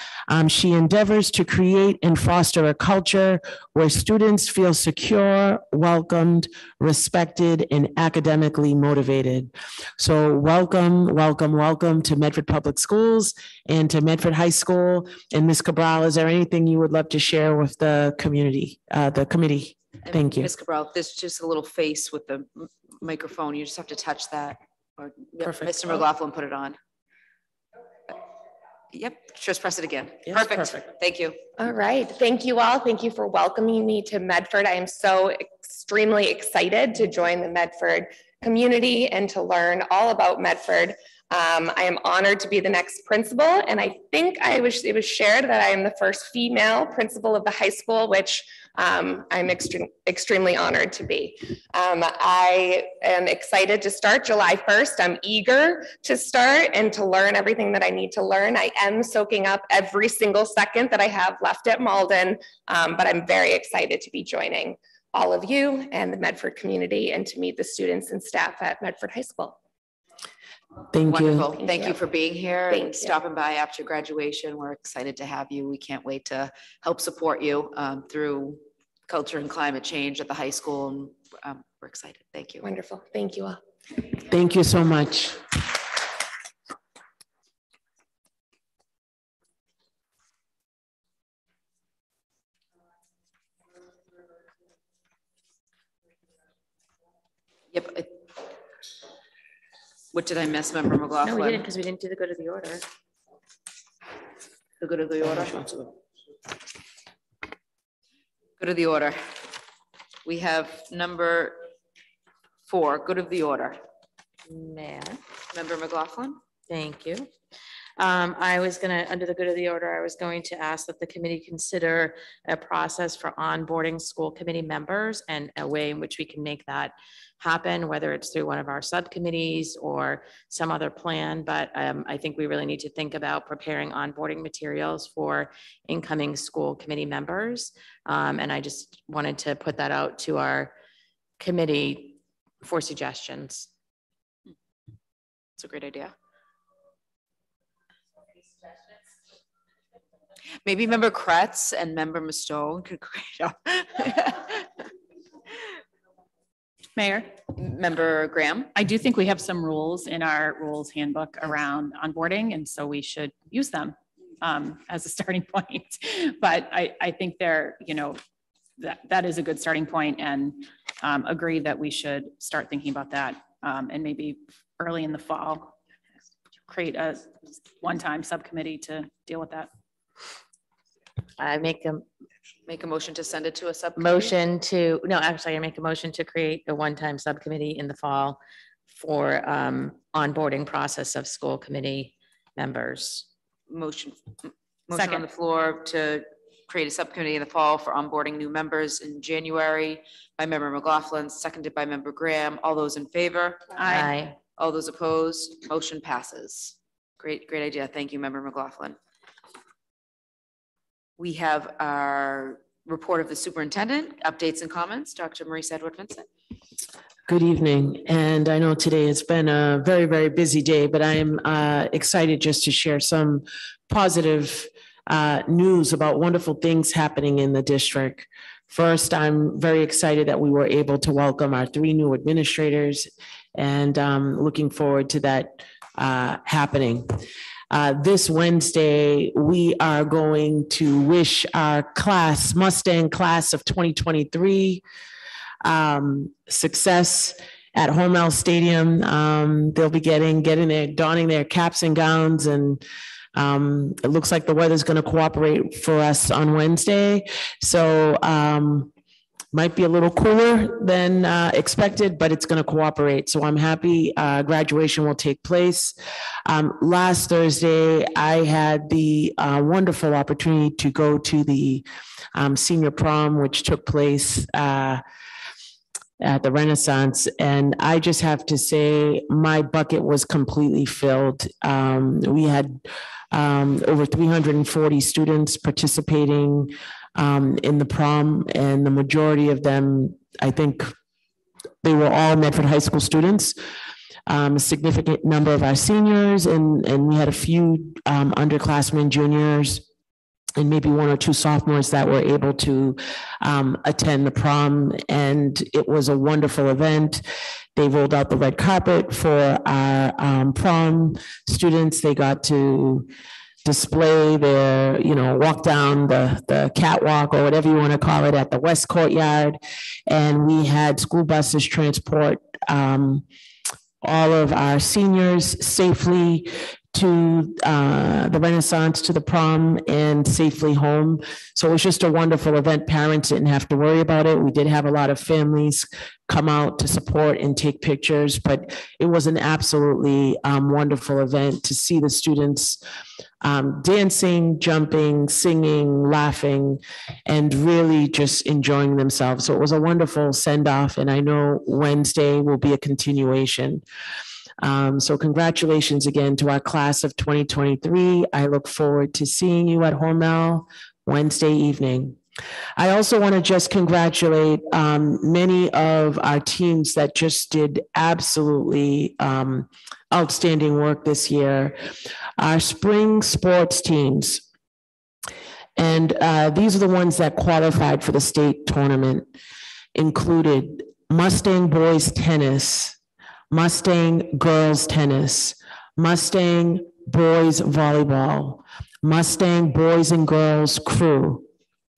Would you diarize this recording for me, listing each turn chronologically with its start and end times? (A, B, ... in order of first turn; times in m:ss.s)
0:00.3-0:20.5 A
0:20.0-0:26.8 B
0:25.4-0:26.0 A
0:28.9-0:31.4 B
0:30.3-0:30.8 A
0:31.6-1:09.6 C
1:10.9-1:11.5 A
1:11.1-1:22.7 B
1:11.5-1:12.0 C
1:12.7-1:13.2 C
1:22.6-1:23.6 C
1:24.3-1:25.4 A
1:37.7-1:38.3 B
1:40.1-1:41.7 B
1:41.2-1:42.8 D
1:44.8-1:45.9 B
1:48.6-1:49.4 B
1:50.2-1:51.7 B
1:52.7-1:53.8 B
1:54.5-1:55.2 D
1:55.5-1:56.4 B
1:56.7-1:57.3 D
1:58.0-2:20.7 D
2:21.4-2:23.7 D
2:25.6-2:26.1 B
2:30.6-2:34.7 B
2:37.0-2:37.3 E
2:37.5-2:38.7 B
2:38.7-2:48.2 E
2:48.8-2:55.7 E
2:56.6-2:59.7 E
3:01.4-3:02.0 D
3:02.7-3:04.3 B
3:04.0-3:13.3 D
3:13.7-3:23.7 B
3:14.9-3:15.2 E
3:23.8-3:24.1 E
3:23.8-3:24.4 D
3:24.6-3:29.0 B
3:31.2-3:36.3 B
3:37.3-3:57.2 A
3:57.7-4:04.8 A
4:05.6-4:12.8 A
4:13.3-4:18.9 A
4:19.5-4:35.0 A
4:36.2-4:42.8 A
4:43.3-4:50.9 A
4:51.8-4:53.6 A
4:54.3-4:59.8 A
5:00.6-5:07.2 A
5:07.7-5:13.1 A
5:13.6-5:23.2 A
5:24.0-5:42.8 A
5:43.4-5:53.8 A
5:54.6-6:02.2 A
6:02.8-6:11.8 A
6:12.4-6:14.4 A
6:15.8-6:19.3 A
6:19.9-6:23.0 A
6:23.5-6:31.5 A